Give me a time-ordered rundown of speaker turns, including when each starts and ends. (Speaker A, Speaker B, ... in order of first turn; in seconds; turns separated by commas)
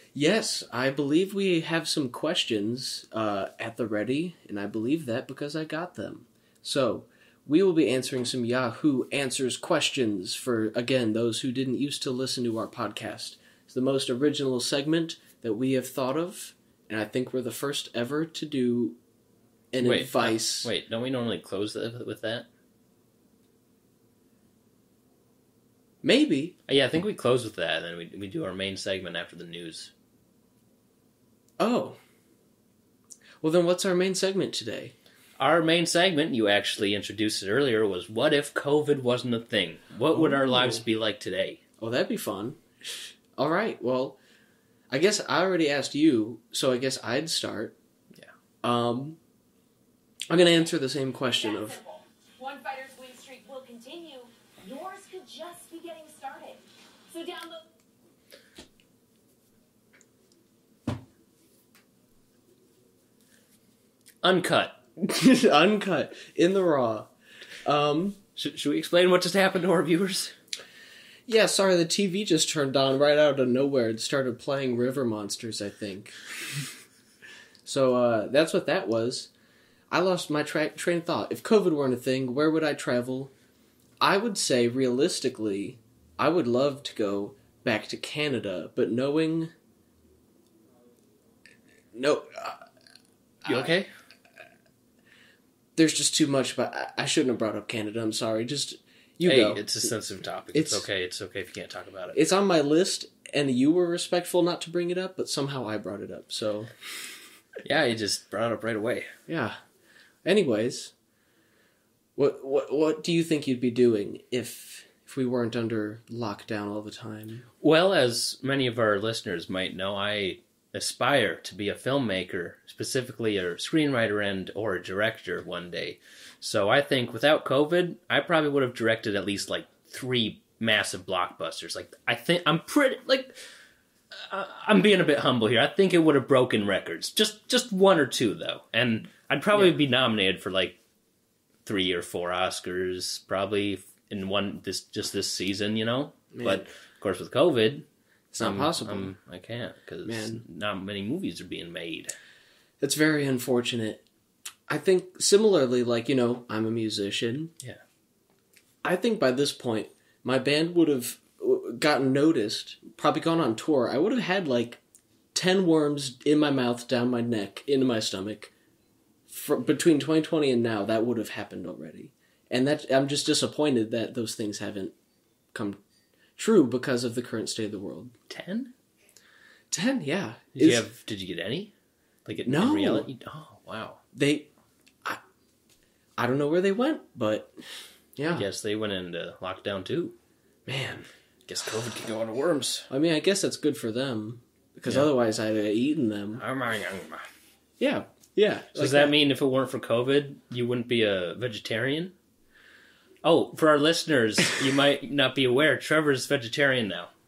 Speaker A: 0.1-19.0, Speaker A: 19.7-20.7, Speaker B: 19.8-22.5, Speaker A: 26.0-26.6, Speaker B: 26.7-29.9, Speaker A: 31.6-32.0, Speaker A: 33.4-34.9, Speaker B: 35.4-41.6, Speaker A: 40.1-40.8, Speaker A: 41.8-44.2, Speaker A: 44.9-47.8, Speaker A: 48.6-49.2, Speaker A: 50.3-51.8, Speaker C: 51.4-57.6, Speaker B: 64.2-64.8, Speaker A: 65.0-67.1, Speaker A: 67.6-68.2, Speaker B: 68.3-70.3, Speaker A: 71.3-76.2, Speaker A: 77.6-79.3, Speaker A: 79.9-83.3, Speaker A: 84.0-89.5, Speaker A: 91.9-92.6, Speaker A: 93.4-93.7, Speaker B: 93.4-93.9, Speaker A: 95.8-99.9, Speaker B: 99.2-102.2, Speaker A: 100.5-100.9, Speaker A: 102.1-106.7, Speaker B: 107.6-109.1, Speaker A: 109.3-109.6, Speaker A: 110.2-110.9, Speaker A: 112.2-117.5, Speaker B: 117.6-133.4, Speaker B: 134.1-140.8, Speaker B: 141.6-147.8, Speaker A: 146.3-146.7, Speaker A: 148.3-149.1, Speaker B: 148.4-152.1, Speaker A: 150.0-150.4, Speaker A: 152.8-154.0, Speaker A: 154.7-157.5, Speaker A: 158.8-164.8, Speaker A: 165.3-168.5, Speaker A: 169.3-174.9, Speaker A: 175.5-175.8, Speaker A: 176.4-178.1, Speaker B: 178.3-178.7, Speaker A: 179.7-180.9, Speaker B: 180.5-181.7, Speaker B: 182.2-184.0, Speaker A: 182.4-183.1, Speaker A: 184.1-184.5, Speaker A: 186.2-187.5, Speaker A: 188.2-188.5, Speaker B: 188.3-190.2, Speaker A: 190.7-191.1, Speaker B: 191.5-192.9, Speaker A: 192.9-196.4, Speaker B: 196.4-197.3, Speaker A: 197.8-199.1, Speaker B: 198.7-202.1, Speaker B: 203.2-207.1